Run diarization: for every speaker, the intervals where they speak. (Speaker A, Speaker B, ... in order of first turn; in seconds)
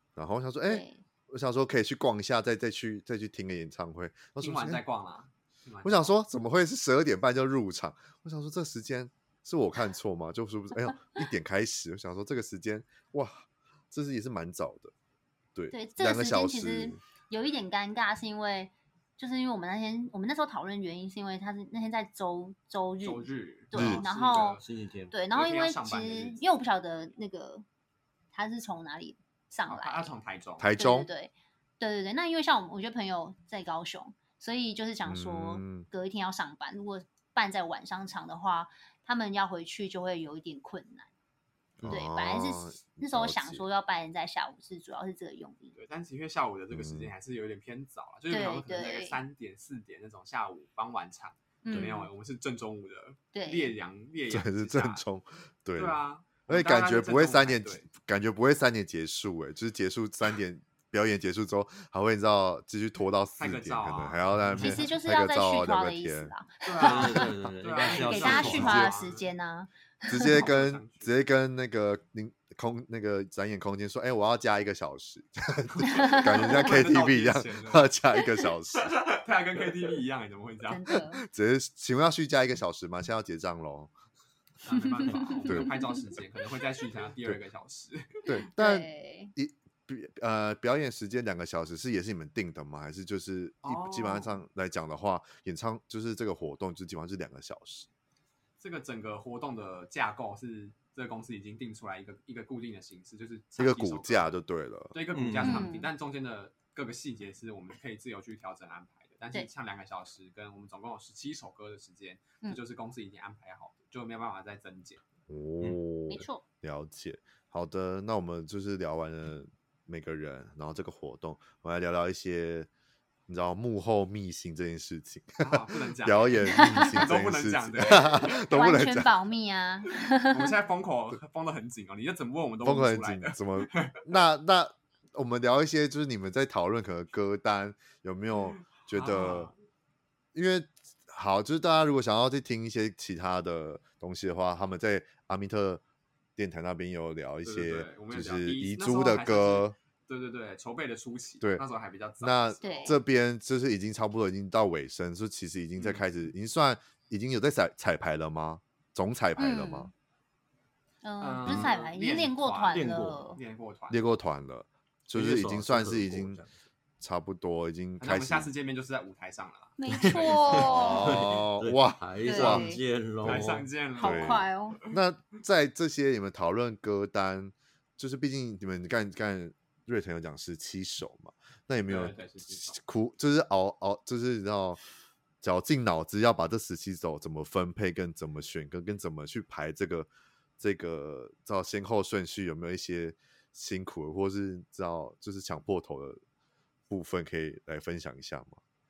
Speaker A: 0.1-4.8, 5.8-14.9, 15.5-17.0, 23.7-24.0, 30.6-31.1, 35.0-35.9, 41.8-43.6, 46.7-47.1, 54.3-66.3, 68.4-68.9, 70.1-78.9, 81.2-83.9, 88.2-97.9, 103.6-105.0, 115.3-122.7, 123.3-129.1, 132.6-139.5, 140.3-145.8, 146.4-149.8, 152.2-159.9, 161.4-161.7, 163.9-166.4, 167.0-168.5, 170.6-184.8, 185.4-190.1, 190.6-196.2, 196.9-198.6
Speaker B: 0.7-1.0, 15.7-24.6, 25.1-27.6, 28.3-30.1, 30.8-41.1, 41.8-45.7, 48.3-49.2, 51.6-52.1, 53.3-53.7, 64.6-70.5, 75.9-76.7, 80.7-81.2, 84.7-86.0, 88.5-89.3, 105.4-105.9, 116.1-116.4, 126.4-127.0, 128.2-130.5, 152.6-153.0, 159.4-159.9, 161.0-163.4, 169.8-171.2, 172.2-172.8, 174.0-174.8
Speaker C: 4.4-6.1, 23.0-24.6, 25.3-26.4, 29.7-30.7, 45.7-55.0, 55.8-57.9, 63.4-64.2, 66.6-69.2, 70.2-71.1, 75.7-77.9, 78.7-80.9, 84.6-88.2, 93.6-94.3, 98.6-104.3, 104.9-115.0, 125.4-128.4, 130.3-134.0, 138.3-139.5, 147.4-153.0, 155.8-156.1, 161.2-164.0, 168.0-170.9, 173.2-175.0, 181.9-182.8
Speaker D: 24.6-25.1, 64.4-64.8, 66.8-68.9, 105.1-105.7, 162.7-163.3, 165.1-166.5, 169.9-173.7